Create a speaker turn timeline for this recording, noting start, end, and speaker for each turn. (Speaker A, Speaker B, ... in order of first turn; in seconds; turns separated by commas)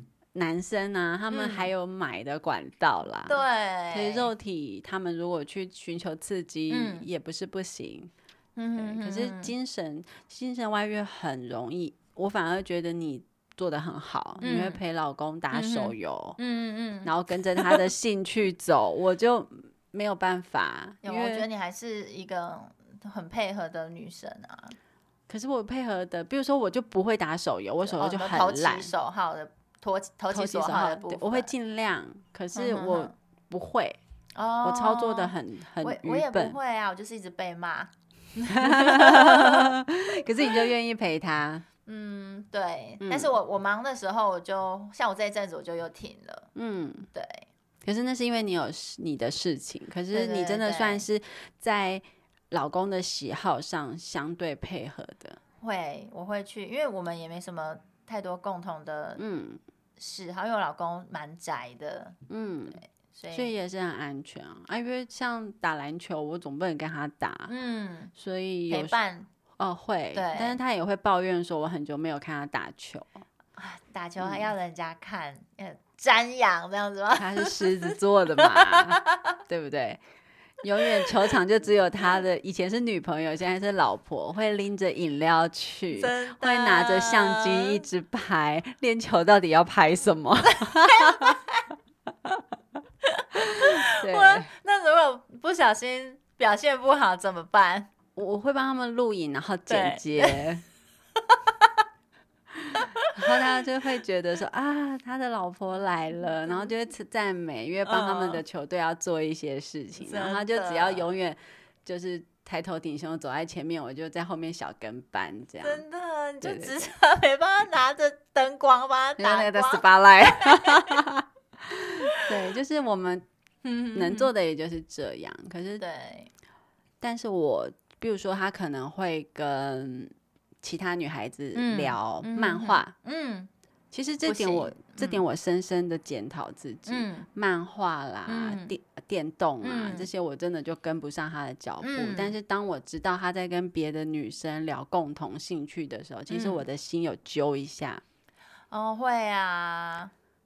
Speaker A: 0.3-8.1, Speaker B: 1.3-1.7, Speaker B: 3.3-4.3, Speaker B: 6.7-7.0, Speaker B: 8.6-9.5, Speaker A: 8.8-16.4, Speaker B: 14.4-14.8, Speaker B: 15.5-17.9, Speaker A: 17.0-21.5, Speaker B: 21.0-24.8, Speaker A: 25.3-28.9, Speaker B: 27.8-31.5, Speaker A: 30.3-34.0, Speaker B: 32.5-33.1, Speaker B: 34.3-39.8, Speaker A: 34.6-36.6, Speaker A: 38.4-41.6, Speaker B: 41.9-46.5, Speaker A: 43.0-43.3, Speaker A: 46.5-47.1, Speaker B: 47.1-47.5, Speaker A: 47.8-55.4, Speaker B: 50.1-51.0, Speaker B: 55.6-59.2, Speaker A: 59.2-59.6, Speaker B: 60.0-62.2, Speaker A: 62.3-62.8, Speaker B: 62.7-63.5, Speaker A: 63.3-67.5, Speaker B: 67.5-68.1, Speaker A: 68.1-69.0, Speaker B: 68.7-69.3, Speaker A: 69.6-73.2, Speaker B: 70.1-70.6, Speaker B: 73.6-79.4, Speaker A: 74.2-74.5, Speaker A: 77.2-80.0, Speaker A: 80.6-91.4, Speaker B: 80.8-81.1, Speaker B: 85.9-87.8, Speaker B: 90.5-91.7, Speaker B: 93.1-97.9, Speaker A: 93.3-94.5, Speaker A: 98.1-100.6, Speaker B: 99.7-100.6, Speaker B: 101.3-101.7, Speaker A: 102.6-115.8, Speaker B: 102.7-103.5, Speaker B: 106.5-106.7, Speaker B: 107.8-108.4, Speaker B: 110.0-111.1, Speaker B: 115.6-121.0, Speaker A: 116.4-116.7, Speaker A: 119.2-123.2, Speaker B: 122.0-122.3, Speaker B: 123.6-124.3, Speaker A: 123.9-125.8, Speaker B: 125.8-126.3, Speaker A: 127.0-132.9, Speaker B: 131.5-133.5, Speaker A: 133.9-148.0, Speaker B: 134.2-135.2, Speaker B: 136.9-137.3, Speaker B: 138.2-138.7, Speaker B: 139.6-140.1, Speaker B: 141.8-142.3, Speaker B: 146.3-146.6, Speaker B: 148.7-150.1